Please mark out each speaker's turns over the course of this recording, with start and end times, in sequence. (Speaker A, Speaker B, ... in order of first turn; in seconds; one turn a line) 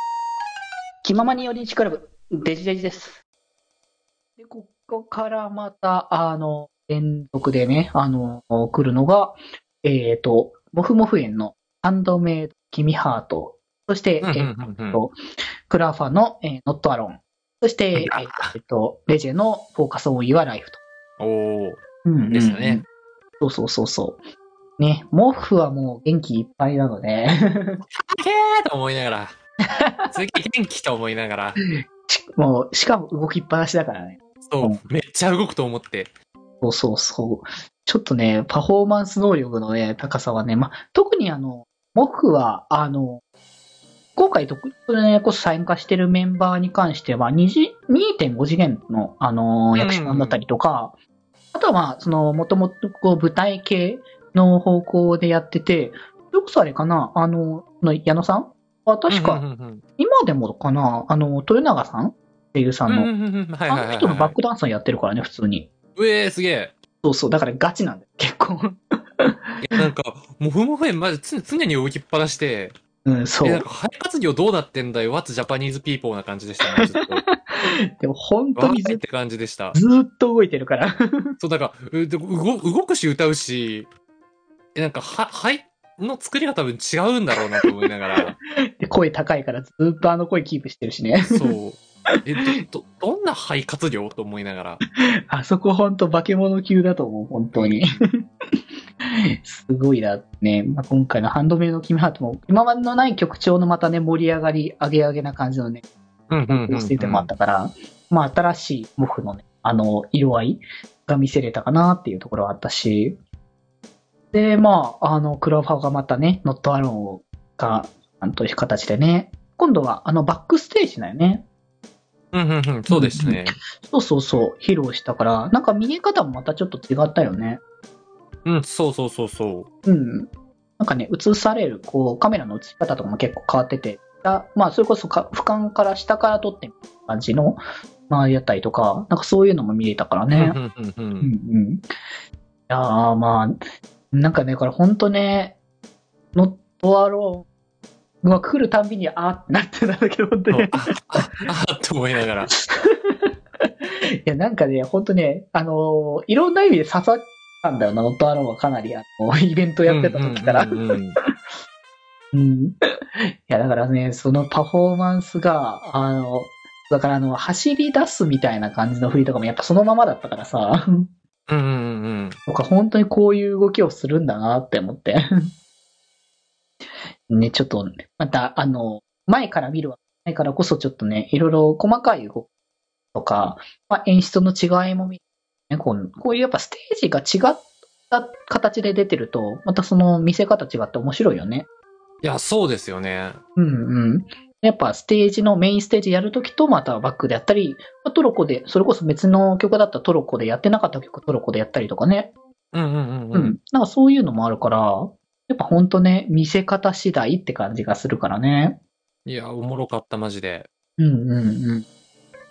Speaker A: 1.0-3.1
Speaker B: 1.1-3.0
Speaker B: 4.4-15.1
Speaker C: 14.2-15.0
Speaker B: 15.7-20.8
Speaker C: 17.9-18.5
Speaker C: 21.2-22.8
Speaker B: 22.0-22.8
Speaker B: 23.4-24.2
Speaker B: 24.8-27.8
Speaker C: 28.0-29.3
Speaker B: 29.8-30.1
Speaker C: 30.1-31.6
Speaker B: 32.0-34.8
Speaker C: 34.5-36.1
Speaker B: 36.6-43.2
Speaker B: 44.1-50.9
Speaker C: 49.8-50.4
Speaker B: 51.5-59.4
Speaker C: 59.1-59.8
Speaker B: 60.0-63.1
Speaker C: 62.9-64.4
Speaker B: 63.7-65.7
Speaker C: 66.0-66.8
Speaker B: 67.0-68.8
Speaker C: 69.6-72.8
Speaker B: 73.0-73.7
Speaker C: 73.4-77.2
Speaker B: 78.0-79.0
Speaker C: 78.5-79.8
Speaker B: 79.7-80.9
Speaker C: 81.4-83.9
Speaker C: 84.7-88.4
Speaker B: 88.8-91.4
Speaker C: 91.3-94.8
Speaker B: 95.3-98.0
Speaker C: 97.5-98.0
Speaker B: 99.4-105.8
Speaker C: 106.3-107.3
Speaker B: 106.5-113.2
Speaker B: 114.3-121.5
Speaker C: 122.3-123.6
Speaker B: 122.9-127.6
Speaker C: 128.4-129.7
Speaker B: 129.8-140.6
Speaker C: 140.3-141.3
Speaker B: 141.2-141.8
Speaker B: 142.7-143.5
Speaker B: 144.1-145.6
Speaker B: 146.3-147.4
Speaker B: 148.2-150.7
Speaker C: 150.5-152.5
Speaker B: 152.5-153.3
Speaker B: 154.2-160.8
Speaker C: 159.8-161.2
Speaker B: 162.3-162.7
Speaker B: 163.4-171.1
Speaker C: 171.5-172.4
Speaker B: 172.4-175.2
Speaker B: 177.3-182.5
Speaker B: 183.1-191.7
Speaker C: 192.2-193.4
Speaker B: 193.6-202.3
Speaker C: 202.7-203.6
Speaker B: 203.3-208.8
Speaker C: 209.2-210.7
Speaker B: 211.0-211.8